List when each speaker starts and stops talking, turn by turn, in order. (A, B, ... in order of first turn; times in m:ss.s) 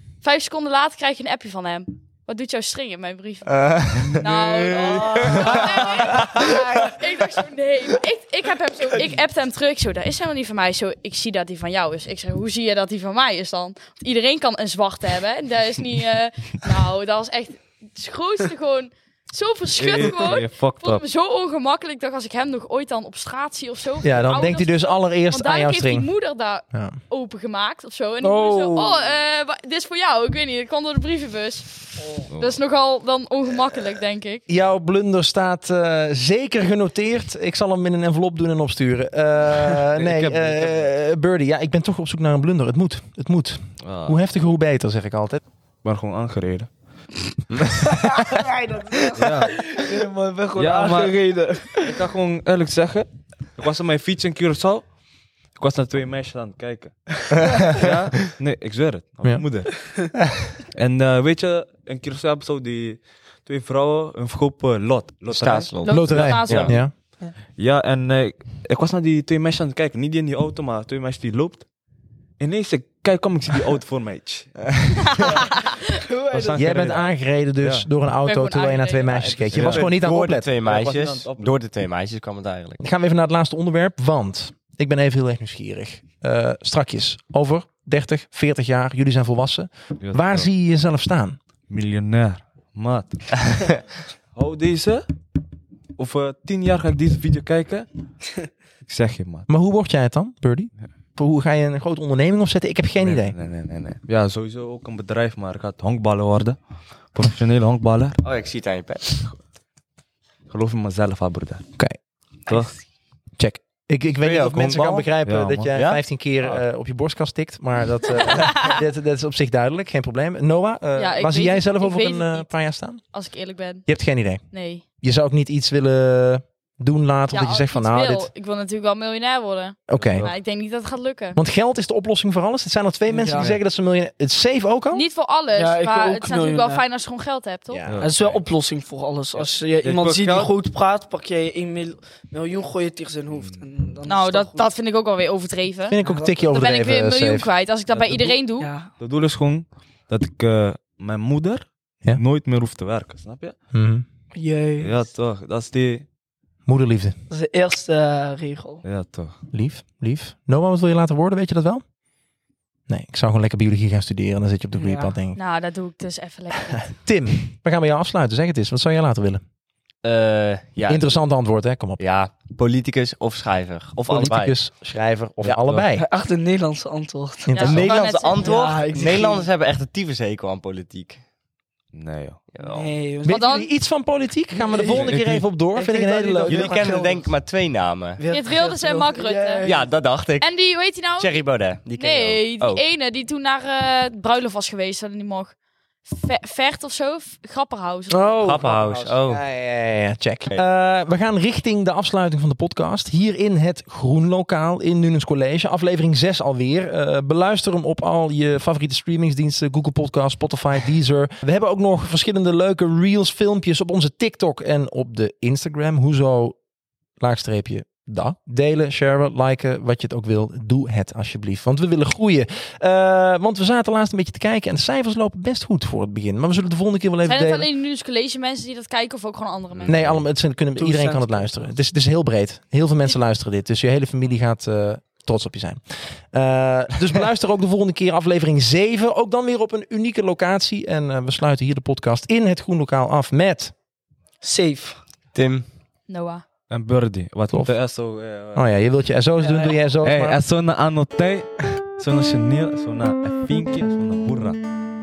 0:00.2-0:34.5 A
0:03.7-0:04.2 B
0:05.0-0:06.2 B
0:19.8-0:21.0 C
0:24.0-0:26.1 D
0:26.7-0:27.0 D
0:28.2-0:29.0 D
0:32.3-0:32.6 C
0:34.5-0:45.4 D
0:39.9-0:40.9 C
0:43.8-0:44.2 C
0:45.8-0:46.7 C
0:47.6-0:47.9 C
0:47.9-0:52.0 E
0:49.1-0:49.5 C
0:50.6-0:51.2 C
0:51.8-0:54.8 C
0:55.6-0:59.9 C
0:57.4-0:57.7 B
1:00.8-1:06.8 C
1:05.3-1:06.7 B
1:05.8-1:06.8 A
1:05.9-1:06.9 D
1:07.6-1:11.6 C
1:12.4-1:15.0 C
1:15.1-1:15.7 A
1:15.2-1:16.8 E
1:16.3-1:17.9 C
1:16.5-1:20.5 D
1:18.2-1:19.3 A
1:19.2-1:22.8 B
1:19.4-1:20.0 C
1:20.6-1:21.5 C
1:22.8-1:31.4 D
1:30.0-1:30.5 C
1:31.7-1:33.8 C
1:34.4-1:35.1 C
1:36.0-1:37.9 C
1:38.8-1:39.5 C
1:39.5-1:43.4 D
1:43.0-1:46.6 C
1:47.1-1:48.2 C
1:48.2-1:49.2 B
1:50.5-1:51.6 C
1:52.5-1:52.8 C
1:53.4-2:03.0 D
1:54.2-1:55.1 B
1:55.2-1:55.7 C
1:55.7-1:56.0 B
1:58.2-1:58.6 A
2:01.0-2:03.9 A
2:03.9-2:04.4 D
2:04.5-2:04.8 A
2:05.0-2:08.3 D
2:07.3-2:11.4 A
2:09.9-2:10.3 D
2:10.0-2:10.3 C
2:11.4-2:15.0 D
2:13.1-2:13.5 E
2:13.3-2:13.6 C
2:14.9-2:17.8 A
2:15.5-2:16.8 E
2:17.7-2:18.0 D
2:17.9-2:18.4 C
2:18.0-2:24.7 E
2:19.4-2:20.6 C
2:23.3-2:23.6 C
2:24.0-2:26.0 A
2:25.9-2:27.5 D
2:26.0-2:26.4 E
2:26.5-2:28.7 A
2:28.0-2:28.4 C
2:28.6-2:28.9 E
2:29.0-2:33.6 C
2:33.7-2:34.0 D
2:34.3-2:35.0 E
2:34.8-2:36.1 C
2:36.7-2:37.2 D
2:37.3-2:38.8 E
2:38.8-2:39.4 C
2:39.5-2:41.8 D
2:42.9-2:45.4 D
2:44.8-2:45.1 E
2:45.4-2:47.0 A
2:47.0-2:49.4 D
2:50.0-2:51.2 B
2:50.9-2:52.0 D
2:52.0-2:54.6 B
2:54.1-2:56.0 D
2:55.4-2:55.7 B
2:56.0-2:57.5 E
2:57.5-2:58.0 D
2:57.5-2:58.8 A
2:57.6-3:01.2 B
2:58.4-2:59.5 E
3:01.9-3:02.4 C
3:02.5-3:03.0 B
3:02.6-3:03.4 E
3:03.2-3:07.1 D
3:03.3-3:03.7 A
3:04.5-3:07.3 E
3:04.9-3:05.5 C
3:06.5-3:08.2 B
3:08.2-3:09.9 E
3:08.3-3:09.7 A
3:09.6-3:12.8 B
3:10.4-3:15.5 A
3:16.1-3:18.5 A
3:18.1-3:36.6 D
3:18.4-3:19.4 B
3:37.2-3:47.7 D
3:47.2-3:50.1 A
3:49.8-3:50.2 C
3:49.9-4:03.7 D
3:50.7-3:51.6 E
4:04.4-4:05.0 E
4:05.3-4:05.7 B
4:06.1-4:06.4 A
4:06.7-4:08.7 C
4:08.5-4:10.4 D
4:09.4-4:09.7 E
4:09.9-4:14.6 C